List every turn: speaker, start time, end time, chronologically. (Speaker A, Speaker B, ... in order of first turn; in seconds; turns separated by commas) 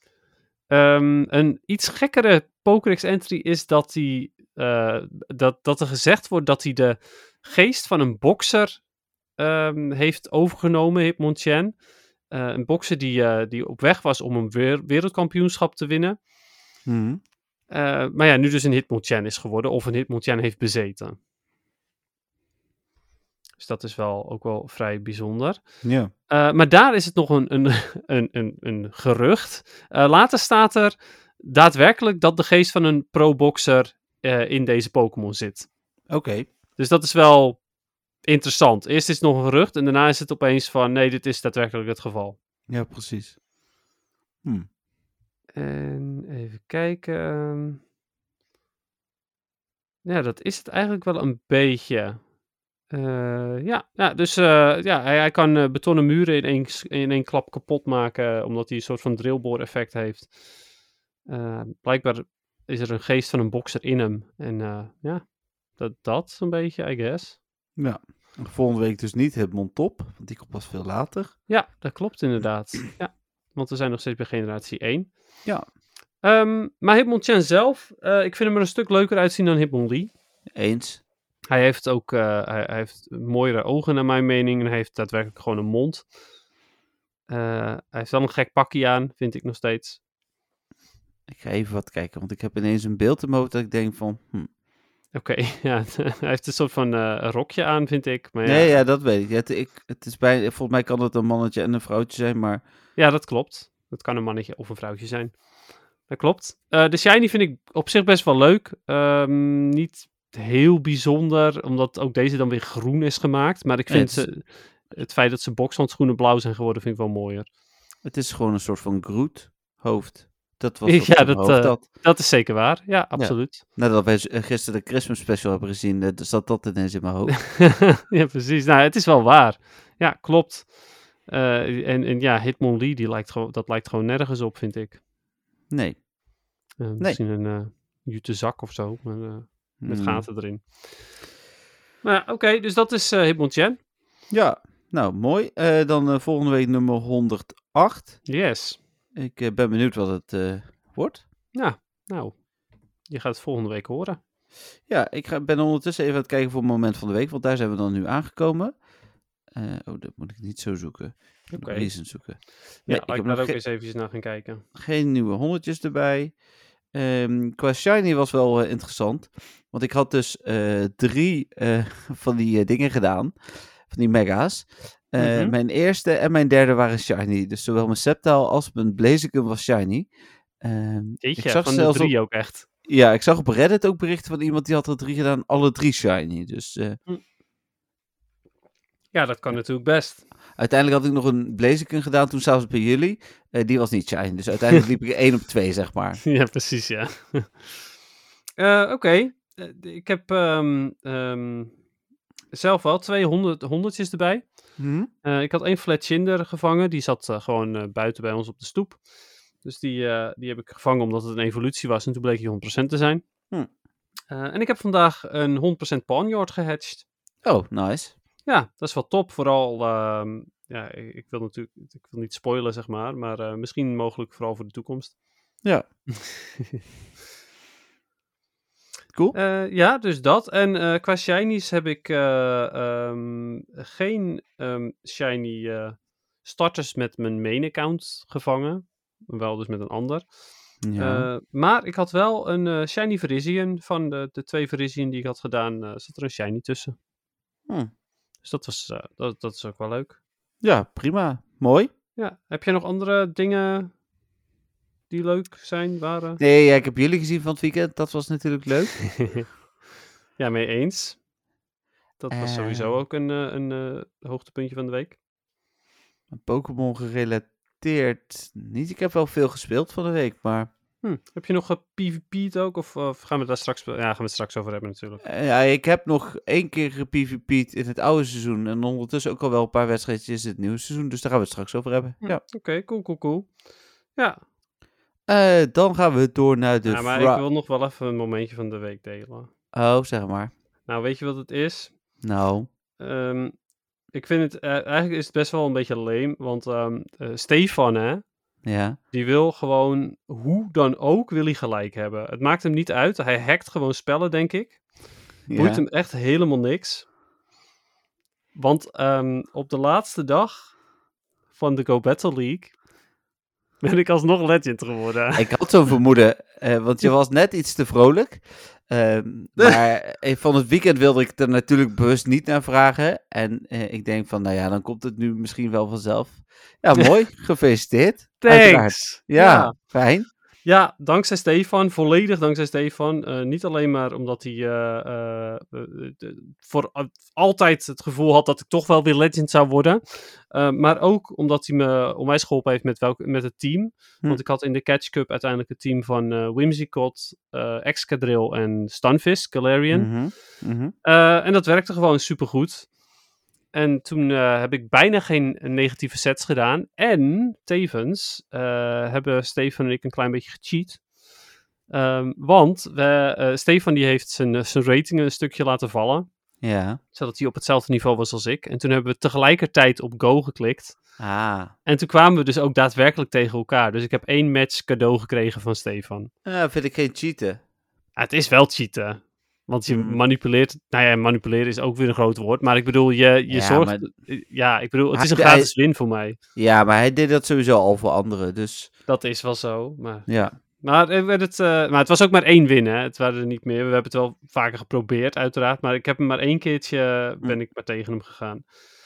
Speaker A: 0.7-8.8, Speaker A: 9.4-16.2, Speaker B: 16.9-17.2, Speaker A: 17.7-21.1, Speaker A: 23.6-35.7, Speaker B: 25.8-26.1, Speaker B: 36.1-36.5, Speaker A: 36.8-37.6, Speaker A: 38.2-42.4, Speaker B: 42.7-43.4, Speaker A: 45.5-47.8, Speaker A: 50.0-52.3, Speaker A: 52.9-60.4, Speaker A: 61.2-67.4, Speaker B: 67.8-71.4, Speaker A: 71.5-75.1, Speaker A: 76.2-80.1, Speaker B: 80.5-81.0, Speaker A: 81.5-86.1, Speaker A: 87.3-90.0, Speaker B: 91.3-94.5, Speaker A: 95.1-98.8, Speaker B: 98.4-102.6, Speaker A: 103.0-117.5, Speaker B: 113.9-114.3, Speaker B: 118.0-121.8, Speaker A: 120.8-123.6, Speaker B: 123.1-127.7, Speaker A: 127.5-135.0, Speaker B: 135.7-136.1, Speaker A: 136.8-141.2, Speaker B: 139.8-140.3, Speaker A: 142.0-143.8, Speaker B: 144.3-148.3, Speaker A: 148.2-148.8, Speaker B: 149.1-151.2, Speaker A: 151.5-152.4, Speaker A: 153.0-154.2, Speaker B: 154.9-158.8, Speaker B: 159.5-163.6, Speaker A: 161.5-164.6, Speaker B: 164.7-166.4, Speaker B: 166.9-173.3, Speaker B: 173.9-182.2, Speaker A: 175.2-175.5, Speaker A: 181.2-182.7, Speaker B: 182.8-187.0, Speaker A: 189.1-190.2, Speaker B: 190.6-196.2, Speaker A: 196.2-197.8, Speaker A: 198.6-201.8, Speaker A: 202.5-209.0, Speaker B: 204.8-205.1, Speaker A: 209.6-213.2, Speaker A: 214.3-217.0, Speaker B: 217.4-218.1, Speaker A: 218.4-225.2, Speaker A: 229.3-246.9, Speaker B: 240.8-241.3, Speaker A: 248.4-250.2, Speaker B: 250.6-251.9, Speaker A: 252.2-253.9, Speaker A: 255.1-256.4, Speaker B: 256.4-259.4, Speaker A: 260.4-261.2, Speaker A: 262.2-265.2, Speaker B: 262.3-262.9, Speaker B: 266.3-270.7, Speaker A: 271.0-275.2, Speaker B: 275.2-282.4, Speaker A: 282.2-284.4, Speaker B: 285.3-287.4, Speaker A: 286.9-289.5, Speaker B: 289.7-290.5, Speaker A: 290.9-292.2, Speaker B: 292.2-292.7, Speaker A: 293.0-298.3, Speaker B: 298.6-299.0, Speaker A: 299.1-307.1, Speaker B: 305.5-305.8, Speaker A: 308.5-310.8, Speaker A: 311.5-312.8, Speaker A: 313.8-315.5, Speaker B: 315.3-330.3, Speaker A: 328.4-329.8, Speaker A: 330.6-350.1, Speaker B: 349.9-350.9, Speaker A: 351.0-352.9, Speaker A: 353.7-361.1, Speaker A: 361.9-366.3, Speaker B: 366.6-367.0, Speaker A: 367.1-371.0, Speaker B: 371.2-371.7, Speaker A: 371.8-376.3, Speaker B: 376.4-377.6, Speaker A: 378.1-386.4, Speaker B: 379.9-380.2, Speaker B: 383.5-384.1, Speaker B: 385.1-385.8, Speaker B: 386.5-388.9, Speaker A: 389.1-398.7, Speaker B: 390.3-390.5